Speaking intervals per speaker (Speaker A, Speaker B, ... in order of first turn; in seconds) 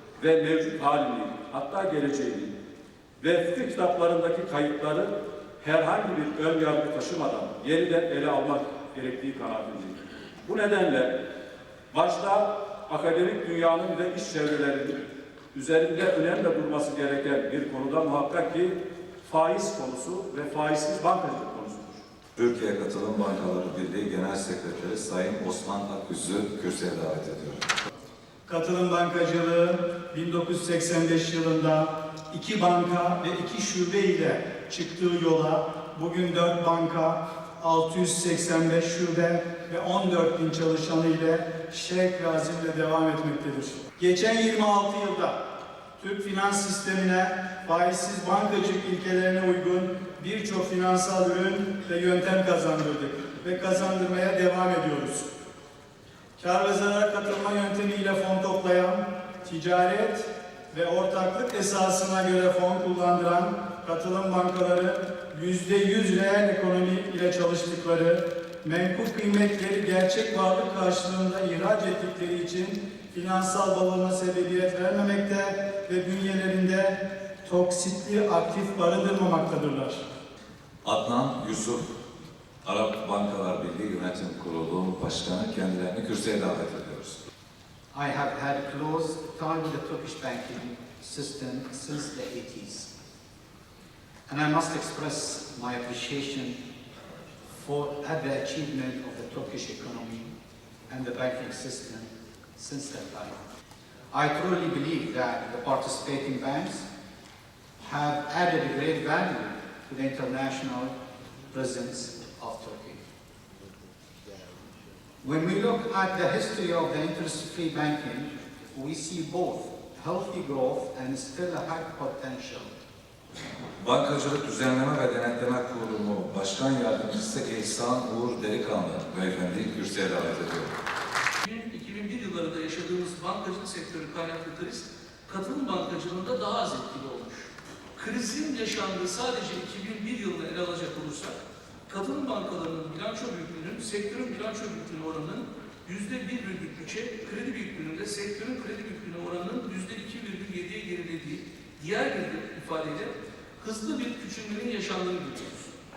Speaker A: 0.2-2.5, 3.2-11.1, 11.9-22.0
Speaker B: 22.4-27.7, 80.8-81.8, 82.6-87.2, 123.8-130.7
Speaker C: 28.4-45.4, 46.0-55.3, 56.4-80.0
Speaker D: 87.9-92.9, 94.3-96.6, 97.5-100.3, 100.9-103.4, 104.1-106.9, 107.8-110.9, 111.5-113.0, 115.2-122.7
Speaker E: 131.4-141.4, 141.9-155.6